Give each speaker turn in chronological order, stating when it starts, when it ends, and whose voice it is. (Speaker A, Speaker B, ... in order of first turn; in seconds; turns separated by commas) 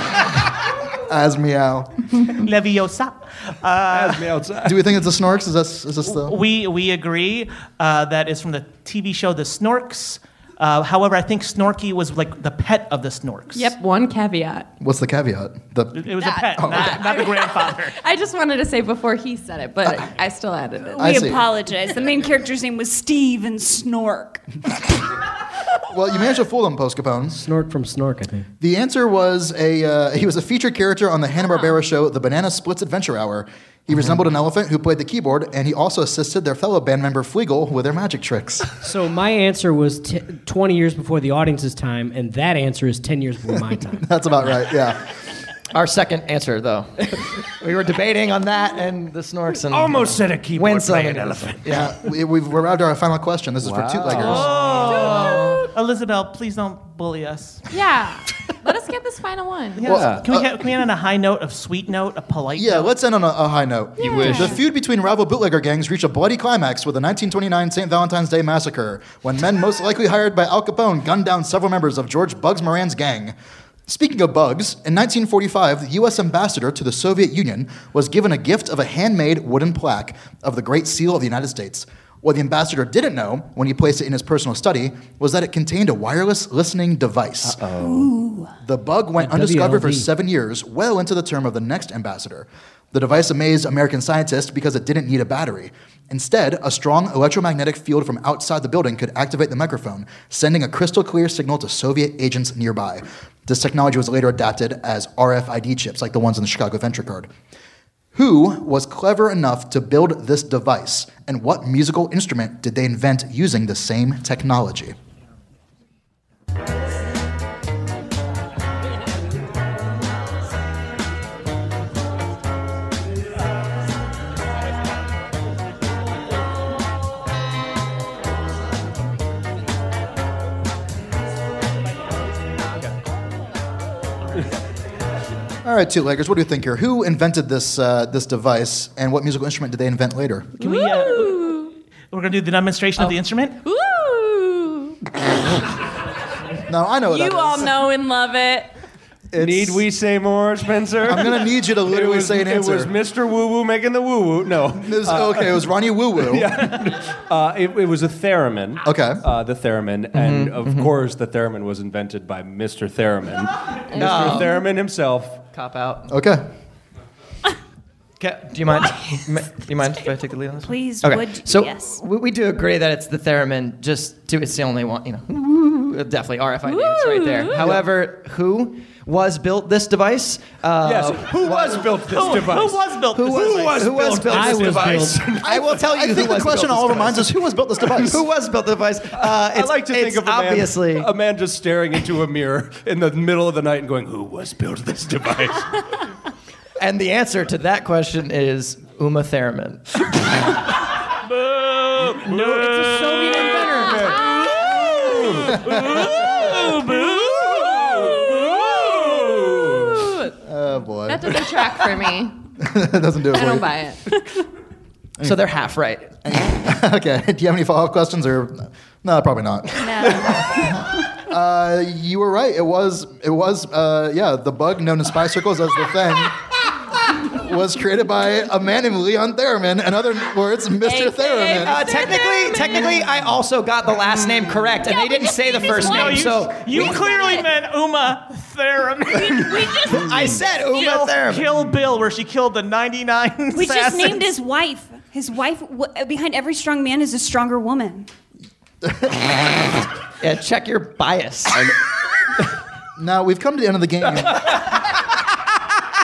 Speaker A: 1.0-2.3, Speaker B: 2.4-4.3, Speaker C: 3.9-4.8, Speaker A: 4.6-6.4, Speaker B: 6.0-13.7, Speaker D: 13.5-14.7, Speaker A: 14.8-17.0, Speaker B: 15.9-17.9, Speaker D: 16.2-21.3, Speaker A: 21.0-21.4, Speaker E: 21.0-24.4, Speaker A: 25.8-27.4, Speaker F: 27.3-28.5, Speaker A: 28.6-38.7, Speaker F: 38.8-44.0, Speaker A: 44.0-45.1, Speaker G: 45.7-51.9, Speaker C: 49.7-51.7, Speaker A: 51.7-54.5, Speaker C: 53.6-54.9, Speaker B: 54.2-57.6, Speaker G: 54.3-55.6, Speaker D: 54.6-55.7, Speaker D: 57.7-59.8, Speaker B: 59.8-62.9, Speaker C: 59.8-60.2, Speaker A: 59.9-60.6, Speaker A: 62.5-73.3, Speaker D: 64.0-64.5, Speaker G: 64.0-64.3, Speaker E: 64.3-64.6, Speaker A: 73.9-87.7, Speaker C: 87.6-87.9, Speaker E: 87.7-88.5, Speaker A: 88.6-107.3, Speaker F: 89.2-90.1, Speaker A: 108.1-115.0, Speaker A: 135.6-140.6, Speaker D: 140.6-141.7, Speaker B: 140.6-143.6, Speaker D: 143.0-144.9, Speaker A: 146.7-147.8, Speaker D: 147.1-148.7, Speaker A: 149.3-149.8, Speaker C: 149.4-155.7, Speaker A: 151.1-152.9, Speaker A: 154.7-156.6, Speaker C: 156.2-165.4, Speaker A: 158.8-159.2, Speaker G: 160.1-160.9, Speaker G: 163.9-164.6, Speaker D: 163.9-164.6, Speaker G: 165.5-166.1, Speaker A: 166.1-166.4, Speaker G: 168.2-182.4, Speaker E: 170.6-172.0, Speaker D: 176.6-177.8, Speaker C: 180.8-185.5, Speaker B: 182.0-183.9, Speaker G: 183.1-187.3, Speaker F: 184.3-185.2, Speaker A: 185.4-188.2, Speaker G: 187.9-191.1, Speaker C: 189.2-195.8, Speaker G: 196.8-199.8, Speaker B: 201.3-208.8, Speaker C: 202.1-206.7, Speaker D: 203.9-204.5, Speaker D: 207.2-210.3, Speaker C: 207.7-208.3, Speaker C: 209.0-209.9, Speaker A: 210.4-211.4, Speaker D: 211.1-212.4, Speaker A: 212.6-213.7, Speaker D: 213.3-214.1, Speaker G: 215.2-216.1, Speaker A: 216.2-226.4, Speaker E: 219.8-220.8, Speaker A: 227.1-231.9, Speaker D: 230.8-233.1, Speaker G: 231.6-236.9, Speaker E: 234.9-237.5, Speaker B: 235.6-240.0, Speaker E: 239.4-239.8, Speaker G: 239.8-241.5, Speaker B: 240.7-244.3, Speaker E: 243.5-248.1, Speaker A: 248.8-249.8, Speaker G: 250.2-251.7, Speaker A: 253.0-254.5